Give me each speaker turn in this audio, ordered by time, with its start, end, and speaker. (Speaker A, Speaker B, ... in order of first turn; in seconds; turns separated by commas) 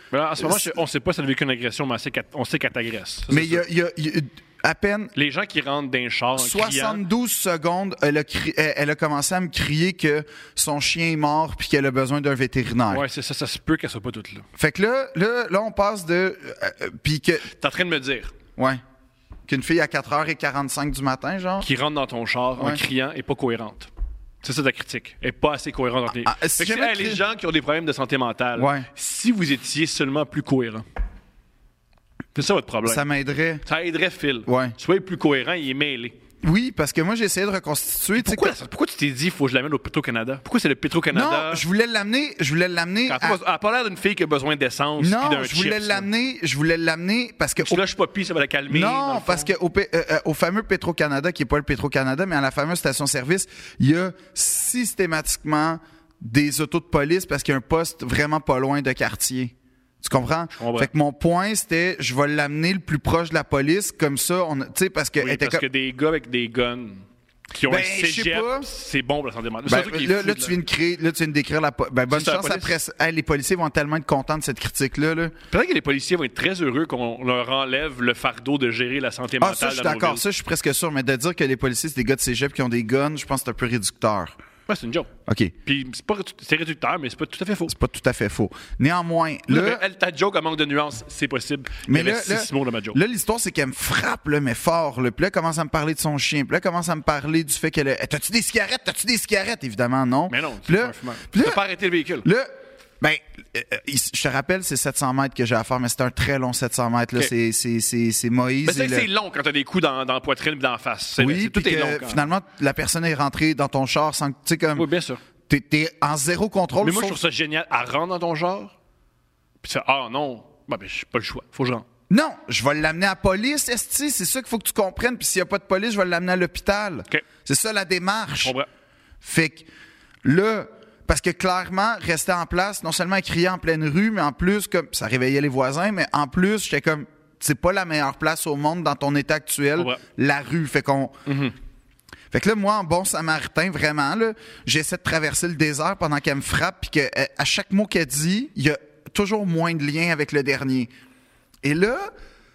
Speaker A: 0.1-3.7, Speaker B: 0.4-0.7, Speaker B: 3.3-5.1, Speaker A: 5.2-7.0, Speaker B: 6.4-13.0, Speaker A: 12.9-14.5, Speaker B: 14.6-17.5, Speaker A: 17.5-18.3, Speaker B: 19.5-21.7, Speaker A: 21.6-23.9, Speaker A: 24.4-30.9, Speaker B: 26.2-27.2, Speaker B: 28.6-28.9, Speaker A: 32.4-33.0, Speaker B: 32.9-33.6, Speaker A: 33.6-36.2, Speaker B: 34.5-34.8, Speaker B: 36.4-38.6, Speaker A: 38.1-41.6, Speaker B: 41.1-43.4, Speaker A: 43.1-46.1, Speaker B: 45.0-47.8, Speaker A: 47.6-49.5, Speaker B: 48.7-65.6, Speaker A: 60.5-60.9, Speaker A: 65.2-70.6, Speaker B: 67.7-68.7, Speaker B: 69.7-75.3, Speaker A: 72.1-72.8, Speaker A: 75.5-80.2, Speaker B: 79.4-84.4, Speaker A: 84.7-85.1, Speaker B: 85.3-85.5, Speaker A: 85.7-87.8, Speaker B: 87.7-89.8, Speaker A: 89.5-93.0, Speaker B: 91.9-101.6, Speaker A: 100.3-102.3, Speaker B: 102.2-109.1, Speaker A: 108.7-112.2, Speaker B: 111.2-114.9, Speaker A: 114.8-115.2, Speaker B: 115.5-117.2, Speaker A: 116.8-118.8, Speaker A: 119.6-121.8, Speaker B: 122.1-128.5, Speaker A: 128.4-128.7, Speaker B: 129.2-129.7, Speaker B: 130.2-141.2, Speaker A: 141.3-141.5, Speaker B: 142.3-150.9, Speaker B: 151.6-152.1